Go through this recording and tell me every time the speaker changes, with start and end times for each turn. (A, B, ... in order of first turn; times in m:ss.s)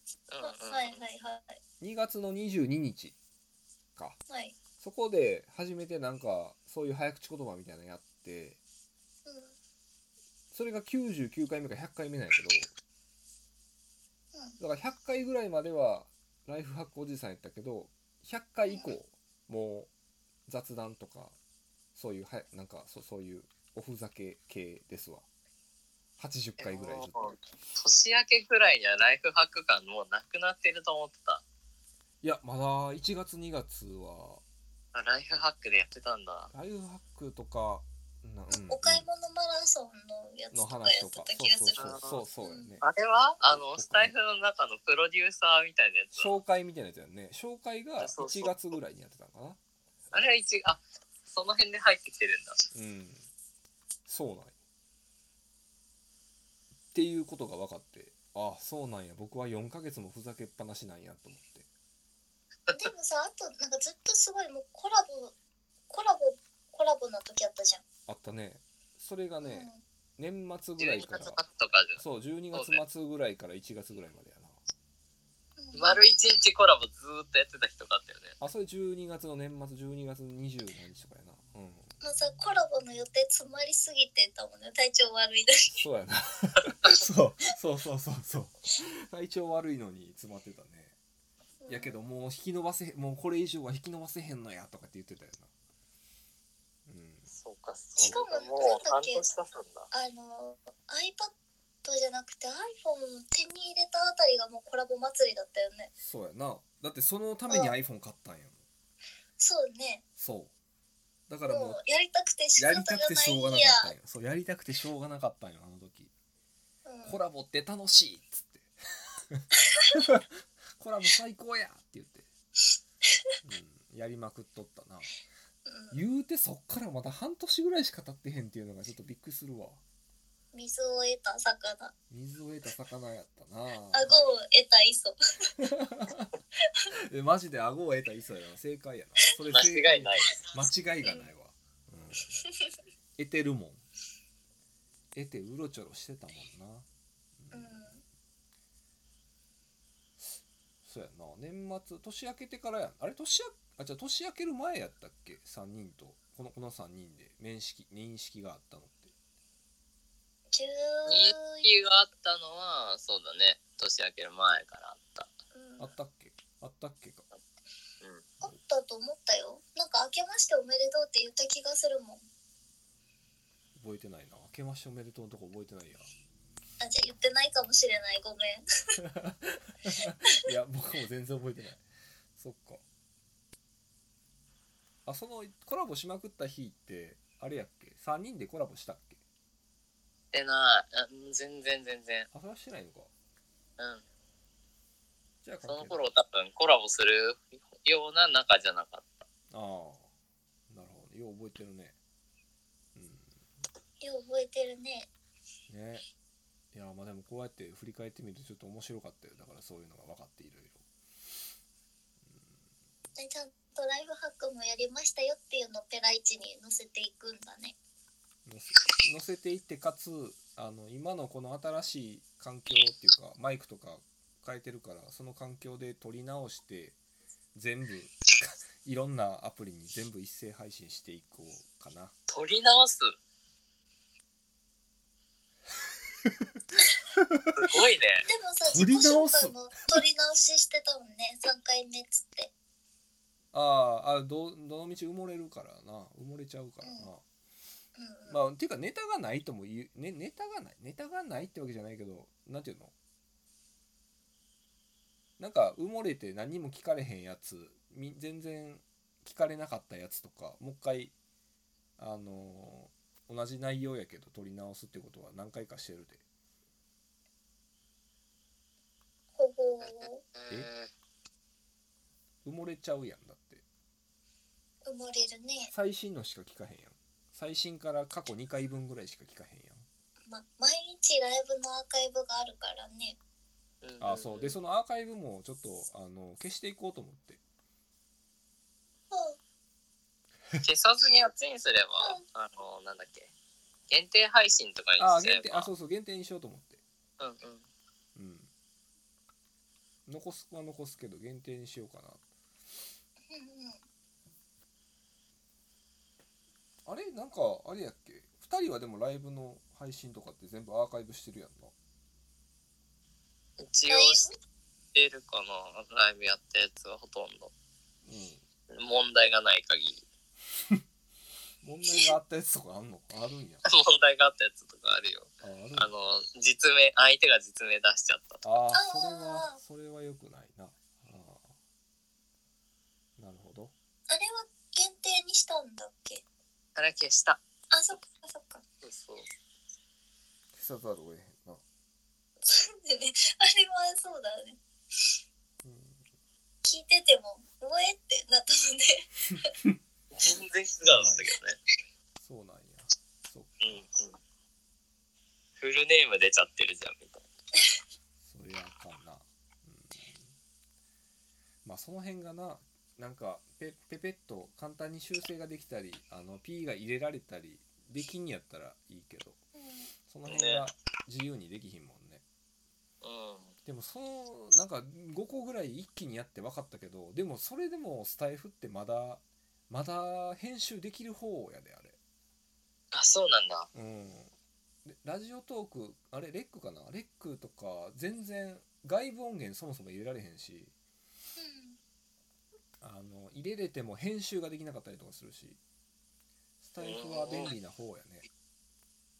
0:00.3-0:01.0 A
0:00.4-0:01.6 B
0:01.8-0:03.2 C
0:04.3-0:04.6 B
0:04.8-0:08.6 C
0:09.2-0:09.6 B
0:10.5-0:12.7 C
0:14.6-0:19.9 C
0:18.6-0:18.9 B
0:20.5-0:21.4 C
0:22.0-0:25.3 C
0:26.2-0:27.4 C
0:26.6-0:31.4 A
0:32.2-0:34.4 C
0:34.9-0:36.5 A
0:36.5-0:39.1 C
0:38.5-0:42.8 B
0:40.5-0:42.8 C
0:41.8-0:42.2 A
0:42.8-0:46.4 A
0:43.5-0:44.1 C
0:46.2-0:49.6 C
0:48.0-0:48.5 A
0:50.1-0:52.6 A
0:52.7-0:53.3 C
0:54.1-0:54.6 C
0:56.9-1:01.7 C
1:02.7-1:05.4 B
1:05.9-1:07.8 B
1:08.1-1:11.4 C
1:09.4-1:09.8 B
1:10.8-1:12.8 A
1:12.0-1:14.6 C
1:15.6-1:16.0 B
1:15.8-1:18.4 A
1:18.4-1:21.9 C
1:22.0-1:25.8 B
1:25.8-1:31.0 C
1:31.6-1:32.0 B
1:31.7-1:35.5 C
1:36.9-1:37.3 C
1:37.3-1:39.9 A
1:38.0-1:38.2 C
1:38.0-1:39.3 B
1:39.9-1:41.3 B
1:41.8-1:45.9 B
1:46.0-1:48.6 C
1:47.5-1:47.8 B
1:49.4-1:50.0 B
1:50.2-1:50.5 C
1:51.3-1:51.8 C
1:51.5-1:53.9 B
1:52.6-1:56.1 C
1:56.8-1:57.2 B
1:57.0-1:58.8 C
2:00.0-2:00.2 C
2:00.8-2:02.3 C
2:03.4-2:05.2 C
2:05.7-2:06.0 B
2:05.9-2:09.8 C
2:10.5-2:11.9 B
2:12.1-2:14.2 C
2:13.9-2:15.5 B
2:15.9-2:16.3 C
2:17.1-2:22.3 C
2:19.4-2:20.4 A
2:22.4-2:22.7 B
2:23.2-2:23.8 C
2:25.1-2:26.9 C
2:27.4-2:27.9 C
2:27.5-2:28.0 B
2:30.8-2:39.1 C
2:40.5-2:41.7 B
2:41.1-2:45.3 A
2:45.5-2:46.0 B
2:45.8-2:47.3 C
2:48.4-2:52.2 B
2:53.8-2:56.1 C
2:56.8-2:58.6 B
2:59.2-3:01.8 C
3:02.4-3:02.8 C
3:05.1-3:09.2 C
3:10.3-3:12.3 A
3:12.3-3:13.1 C
3:15.4-3:16.0 C
3:15.7-3:19.3 A
3:19.5-3:20.1 C
3:20.7-3:22.0 C
3:23.0-3:23.3 C
3:24.0-3:25.1 B
3:25.7-3:26.1 C
3:26.7-3:30.8 C
3:32.2-3:32.6 C
3:33.2-3:37.8 B
3:38.5-3:47.0 C
3:47.6-3:52.1 C
3:52.3-3:53.1 A
3:57.6-3:58.3 A
3:58.3-4:02.5 B
3:58.6-4:00.0 C
4:03.5-4:07.2 C
4:06.8-4:07.1 B
4:08.0-4:08.4 B
4:08.3-4:12.9 C
4:15.4-4:21.2 C
4:22.0-4:26.2 C
4:29.4-4:30.2 B
4:29.8-4:30.9 A
4:32.4-4:33.6 C
4:34.8-4:35.7 B
4:35.7-4:39.9 C
4:40.3-4:43.2 B
4:43.8-4:44.6 A
4:44.0-4:47.4 C
4:49.1-4:49.4 B
4:50.6-4:53.3 A
4:53.9-4:55.7 A
4:55.0-4:56.8 C
4:57.2-4:57.7 A
4:58.2-4:58.5 C
5:00.1-5:02.2 C
5:03.3-5:03.8 B
5:06.9-5:11.7 C
5:13.6-5:14.3 A
5:13.9-5:14.3 B
5:15.0-5:17.5 A
5:18.1-5:18.4 C
5:18.7-5:20.0 A
5:21.6-5:23.6 C
5:21.9-5:22.1 B
5:23.6-5:28.4 A
5:25.4-5:25.9 C
5:28.4-5:31.5 C
5:28.7-5:29.6 B
5:33.2-5:33.7 C
5:34.1-5:36.2 B
5:36.8-5:37.4 A
5:37.7-5:38.6 B
5:38.8-5:39.3 A
5:40.5-5:41.6 C
5:42.4-5:44.6 B
5:45.6-5:46.0 C
5:46.6-5:49.1 B
5:50.1-5:51.6 A
5:50.9-5:51.3 C
5:52.2-5:53.8 C
5:53.6-5:54.2 A
5:55.6-5:57.2 A
5:58.2-6:00.3 C
6:01.6-6:09.4 C
6:09.6-6:09.9 B
6:10.1-6:12.2 C
6:10.3-6:10.7 A
6:13.0-6:13.5 A
6:13.6-6:22.0 C
6:22.9-6:23.7 A
6:23.7-6:24.3 C
6:24.9-6:30.7 C
6:31.4-6:31.8 B
6:32.8-6:35.6 C
6:36.6-6:38.2 C
6:36.8-6:37.6 A